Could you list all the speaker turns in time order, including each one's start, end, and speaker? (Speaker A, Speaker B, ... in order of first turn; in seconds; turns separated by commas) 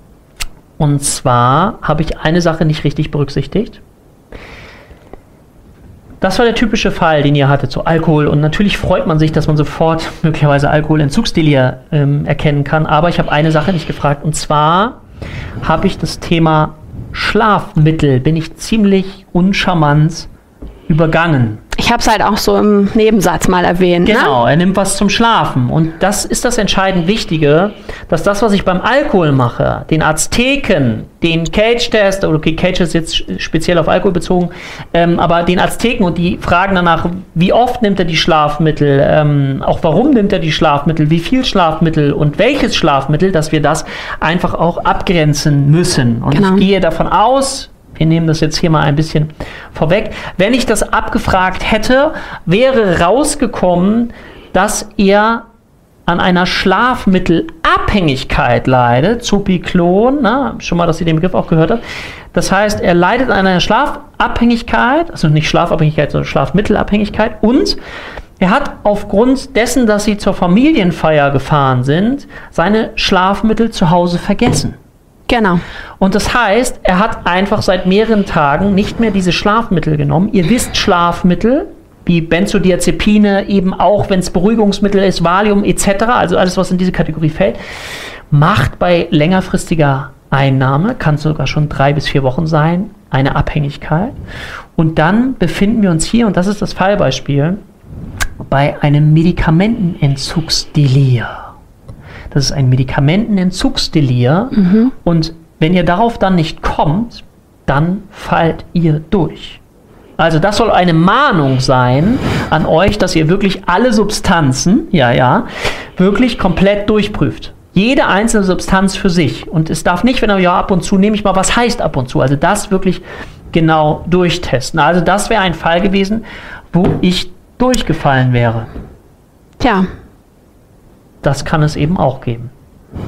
Speaker A: 0.8-3.8, Speaker A: 6.2-15.0, Speaker A: 15.6-20.3, Speaker A: 20.9-21.6, Speaker B: 21.8-24.4, Speaker A: 24.1-55.5, Speaker B: 46.3-46.6, Speaker A: 56.1-61.8, Speaker A: 62.3-67.8, Speaker A: 68.4-74.8, Speaker B: 75.3-75.6, Speaker A: 76.0-87.6, Speaker A: 88.3-94.1, Speaker A: 94.8-97.6, Speaker A: 98.5-101.5, Speaker A: 102.3-109.6, Speaker B: 104.6-104.9, Speaker A: 110.2-128.7, Speaker B: 129.6-129.9, Speaker A: 131.2-132.5